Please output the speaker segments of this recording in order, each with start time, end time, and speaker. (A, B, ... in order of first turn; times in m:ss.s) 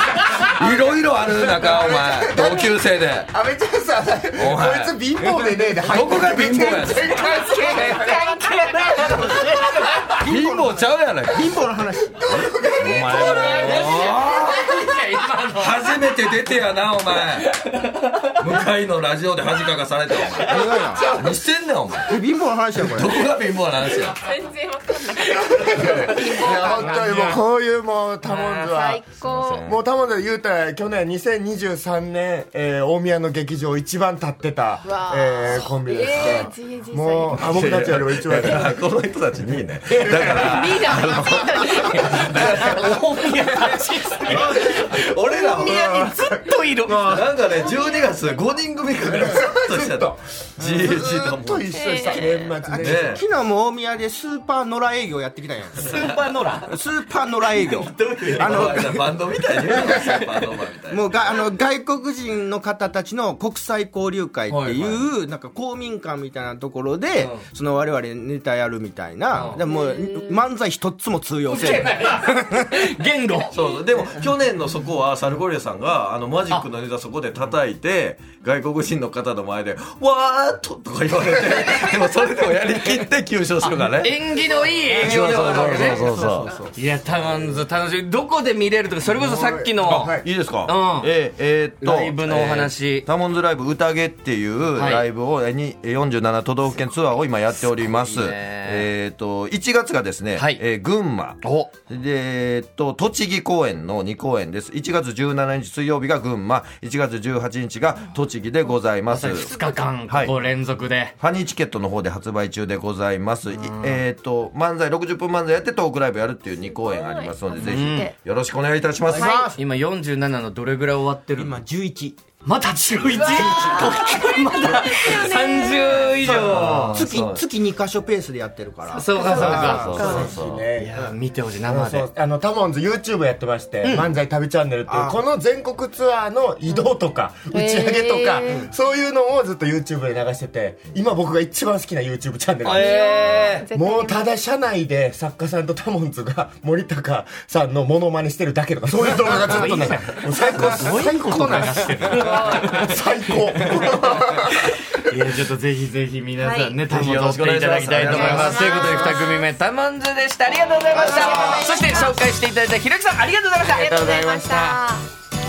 0:00.4-0:03.3 A
0:01.6-0:08.2 B
0:04.4-0:05.0 A
0:05.9-0:07.2 A
0:07.2-0:09.4 C
0:07.2-0:10.2 D
0:10.1-0:12.2 E
0:10.2-0:11.7 A
0:12.2-0:13.4 B
0:12.3-0:14.6 A
0:12.9-0:14.8 C
0:13.2-0:15.9 D
0:15.5-0:17.6 A
0:18.3-0:22.2 A
0:20.3-0:21.2 E
0:21.0-0:21.4 B
0:22.0-0:23.2 E
0:22.8-0:24.2 A
0:24.1-0:27.0 C
0:25.3-0:29.0 B
0:26.2-0:27.4 D
0:28.3-0:28.6 D
0:28.6-0:29.7 C
0:29.2-0:29.8 A
0:29.6-0:38.8 B
0:34.8-0:37.5 C
0:37.4-0:42.9 A
0:39.9-0:40.4 B
0:40.4-0:42.6 C
0:41.9-0:47.3 D
0:44.3-0:45.9 A
0:45.6-0:46.5 B
0:46.9-0:52.2 A
0:47.7-0:48.1 C
0:49.0-0:53.2 B
0:50.9-0:52.9 C
0:52.7-0:53.2 A
0:52.9-0:56.0 E
0:55.8-0:56.8 D
0:56.7-1:00.3 E
0:57.6-1:01.4 A
0:58.4-0:58.8 D
1:00.9-1:12.9 E
1:04.5-1:05.1 D
1:07.2-1:07.4 D
1:09.3-1:09.6 D
1:09.4-1:10.4 C
1:11.5-1:13.6 D
1:13.5-1:24.3 A
1:23.8-1:26.0 D
1:24.9-1:26.8 E
1:24.9-1:26.6 A
1:25.6-1:26.6 C
1:26.7-1:31.1 D
1:27.1-1:27.6 A
1:29.1-1:30.3 B
1:30.2-1:49.5 A
1:31.8-1:33.1 D
1:34.7-1:35.1 D
1:37.7-1:38.9 D
1:40.4-1:40.6 D
1:41.4-1:41.7 D
1:49.1-1:51.2 D
1:50.1-1:50.3 A
1:51.2-1:59.5 A
1:53.5-1:54.0 D
1:56.5-1:58.2 C
1:57.6-1:58.1 D
1:59.1-1:59.6 E
1:59.6-2:01.6 D
2:01.4-2:02.2 E
2:02.4-2:07.1 D
2:03.1-2:06.3 C
2:03.4-2:03.9 E
2:06.2-2:07.4 A
2:06.9-2:10.1 E
2:08.8-2:10.4 C
2:08.9-2:12.1 D
2:09.6-2:10.7 A
2:10.0-2:11.1 B
2:11.6-2:34.6 B
2:13.8-2:14.1 D
2:14.9-2:15.2 E
2:17.5-2:18.7 C
2:22.6-2:23.7 D
2:22.7-2:24.3 C
2:29.3-2:33.0 D
2:32.1-2:32.8 C
2:33.6-2:44.8 D
2:36.4-2:36.8 C
2:36.9-2:39.1 A
2:38.0-2:39.5 C
2:40.9-2:41.8 A
2:40.9-2:42.0 E
2:41.0-2:42.2 C
2:43.7-2:45.0 C